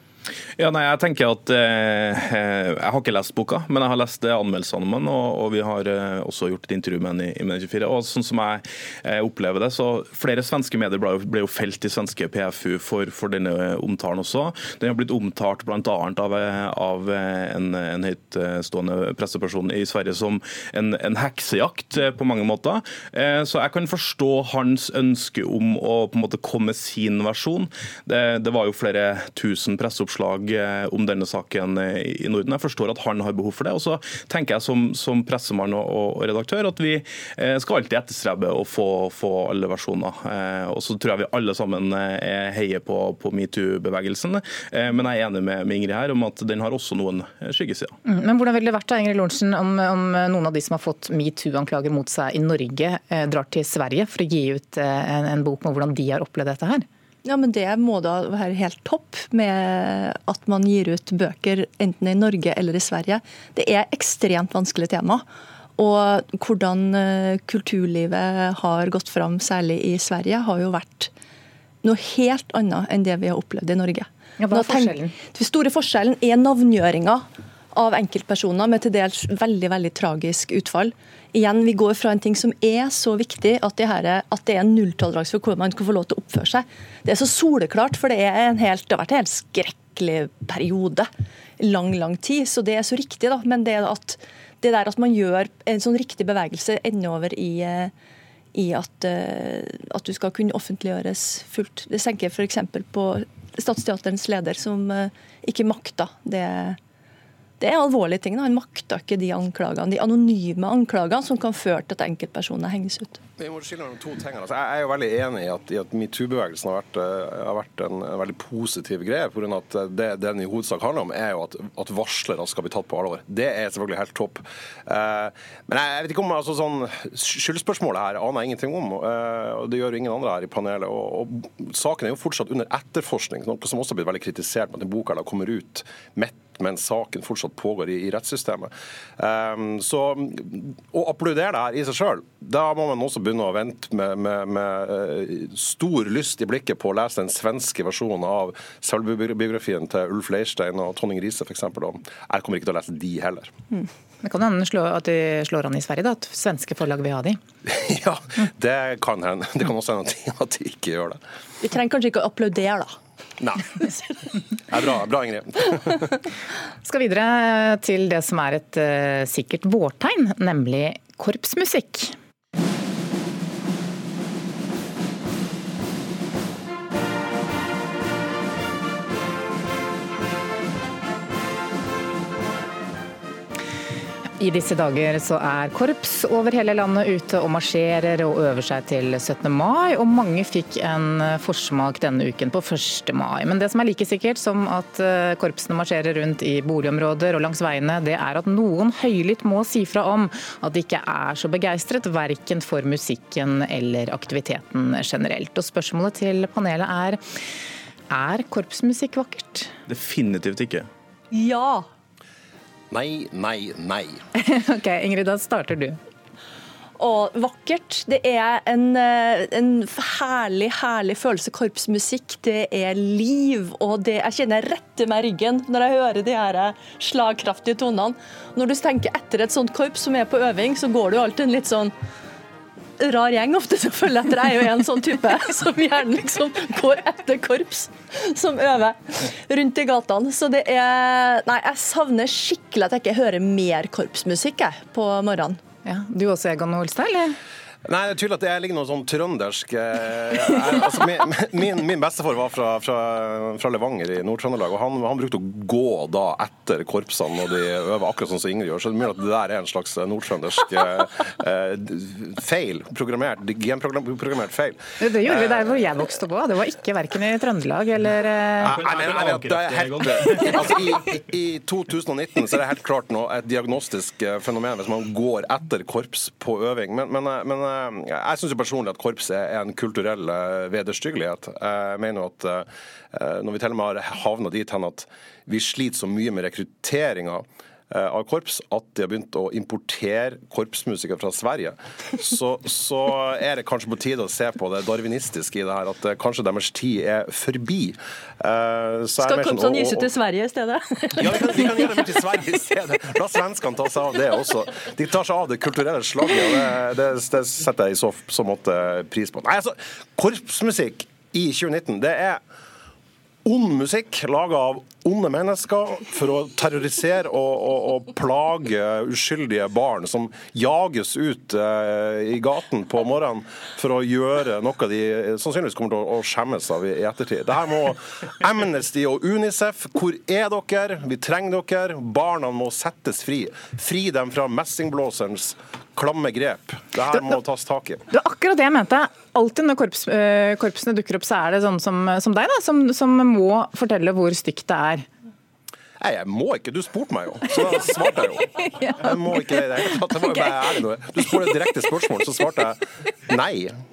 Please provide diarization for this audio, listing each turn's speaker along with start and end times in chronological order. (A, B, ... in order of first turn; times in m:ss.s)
0:00.6-0:47.9 A
0:48.0-0:56.8 B
0:57.2-1:05.2 C
1:05.8-1:11.1 C
1:11.8-1:31.1 C
1:14.4-1:15.1 B
1:31.6-1:37.9 C
1:38.5-1:46.8 C
1:47.6-1:53.2 C
1:53.4-2:33.5 D
2:34.2-2:37.4 B
2:37.7-2:41.2 D
2:41.6-2:42.9 C
2:43.4-2:43.6 D
2:43.8-2:44.1 C
2:44.7-2:46.1 D
2:46.8-2:52.1 B
3:04.4-3:27.2 B
3:28.1-3:29.7 B
3:29.9-3:30.9 A
3:31.3-3:31.8 C
3:32.9-3:34.2 D
3:34.4-3:36.0 B
3:37.0-3:51.9 C
3:53.0-4:05.6 C
4:05.8-4:07.3 B
4:07.8-4:25.7 D
4:25.0-4:28.8 B
4:28.6-5:00.1 D
4:28.6-4:30.8 A
4:59.2-5:02.0 C
5:01.2-5:12.4 D
5:13.4-5:38.0 D
5:38.1-5:45.0 B
5:46.0-5:53.7 D
5:48.7-5:49.2 B